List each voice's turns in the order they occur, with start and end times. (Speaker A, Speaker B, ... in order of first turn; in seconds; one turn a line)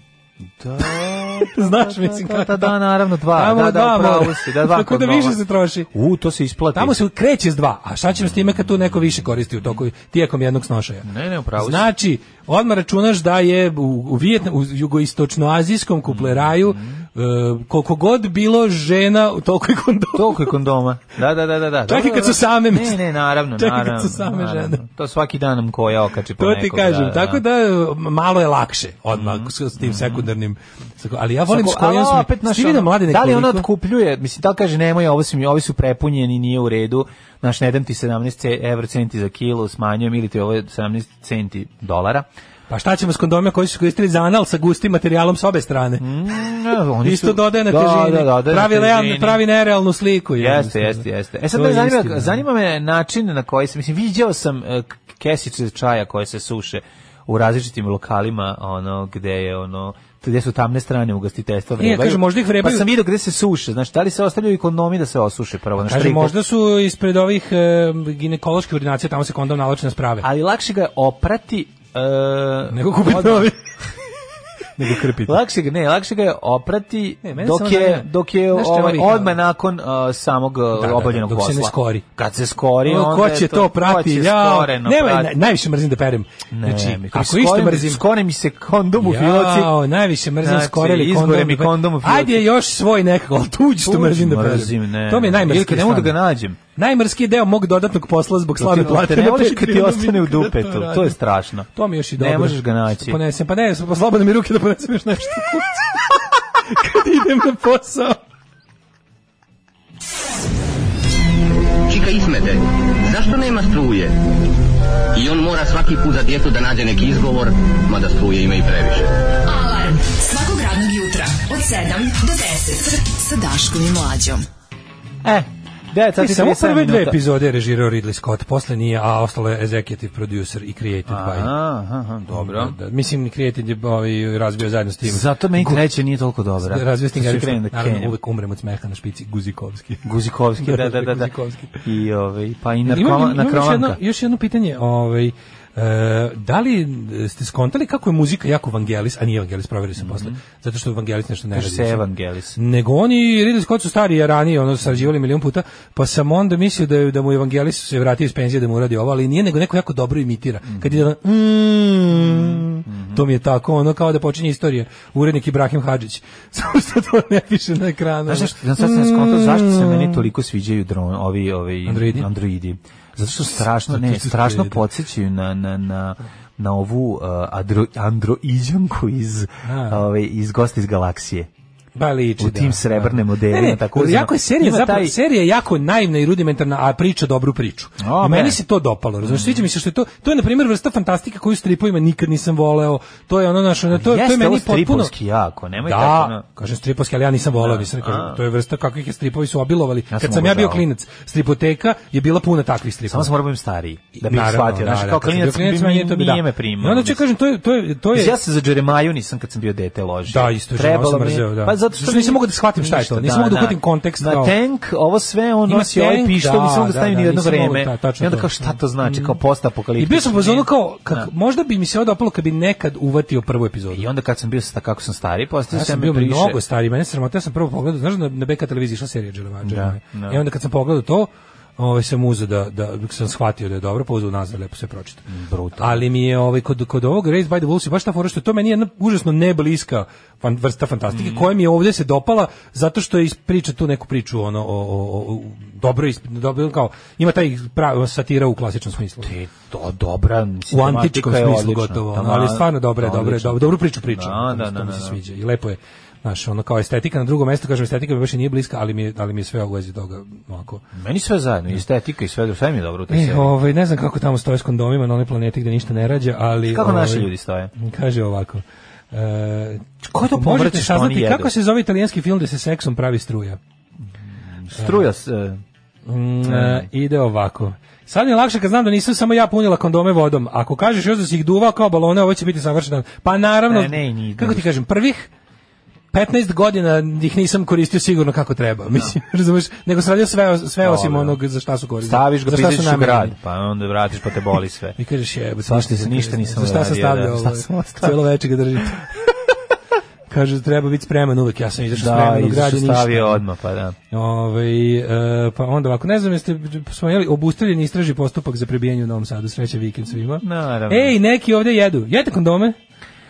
Speaker A: 0.6-5.4
Speaker B: 1.4-2.7
Speaker B: 3.3-5.9
Speaker A: 5.9-7.0
Speaker B: 6.7-20.5
Speaker A: 11.0-11.9
Speaker A: 16.1-17.0
Speaker A: 20.1-27.4
Speaker B: 21.9-23.0
Speaker B: 23.6-24.8
Speaker B: 26.4-33.7
Speaker A: 29.1-30.3
Speaker A: 31.5-42.3
Speaker B: 42.7-46.1
Speaker A: 46.0-49.4
Speaker B: 47.0-52.4
Speaker A: 50.4-66.3
Speaker B: 61.8-62.9
Speaker B: 65.8-70.3
Speaker A: 70.2-73.5
Speaker B: 72.7-73.6
Speaker B: 74.8-75.4
Speaker A: 75.2-85.3
Speaker B: 77.2-79.4
Speaker B: 80.8-82.0
Speaker B: 82.8-88.0
Speaker A: 86.5-89.7
Speaker B: 89.0-96.2
Speaker A: 90.4-92.4
Speaker A: 93.8-96.6
Speaker B: 96.7-101.2
Speaker A: 98.6-103.2
Speaker B: 101.7-108.2
Speaker C: 111.9-114.1
Speaker C: 115.1-119.1
Speaker D: 119.4-124.5
Speaker A: 125.2-127.2
Speaker B: 126.2-131.5
Speaker A: 131.1-132.8
Speaker B: 132.3-135.8
Speaker A: 135.0-138.1
Speaker B: 136.6-140.1
Speaker A: 140.0-141.3
Speaker B: 140.6-141.8
Speaker A: 141.8-144.0
Speaker B: 142.8-152.0
Speaker A: 150.0-150.4
Speaker A: 151.5-152.6
Speaker B: 152.6-170.2
Speaker A: 160.7-161.0
Speaker A: 162.3-163.2
Speaker A: 168.3-181.5
Speaker B: 171.9-172.3
Speaker B: 173.9-174.8
Speaker B: 179.6-180.0
Speaker B: 181.9-195.1
Speaker A: 182.4-185.2
Speaker A: 188.0-188.6
Speaker A: 189.2-189.6
Speaker A: 193.9-196.4
Speaker B: 195.8-203.3
Speaker A: 197.6-198.4
Speaker A: 200.1-200.8
Speaker A: 203.1-207.2
Speaker B: 204.2-208.4
Speaker A: 208.1-221.3
Speaker B: 210.3-214.5
Speaker B: 215.7-219.3
Speaker B: 220.0-224.0
Speaker A: 223.9-226.6
Speaker B: 225.7-235.2
Speaker A: 229.6-230.4
Speaker A: 235.3-236.0
Speaker B: 235.8-249.3
Speaker A: 241.1-241.4
Speaker A: 249.2-255.2
Speaker B: 250.7-260.8
Speaker A: 260.9-263.5
Speaker B: 263.1-273.6
Speaker A: 266.7-267.7
Speaker A: 270.0-271.5
Speaker A: 274.6-275.6
Speaker B: 274.8-275.0
Speaker B: 276.1-285.3
Speaker A: 276.4-276.9
Speaker A: 283.7-284.7
Speaker B: 286.1-293.3
Speaker A: 290.8-291.4
Speaker A: 292.0-295.0
Speaker B: 295.0-299.2
Speaker A: 295.6-298.2
Speaker B: 300.3-303.4
Speaker A: 301.9-303.9
Speaker B: 304.1-312.8
Speaker A: 310.4-311.1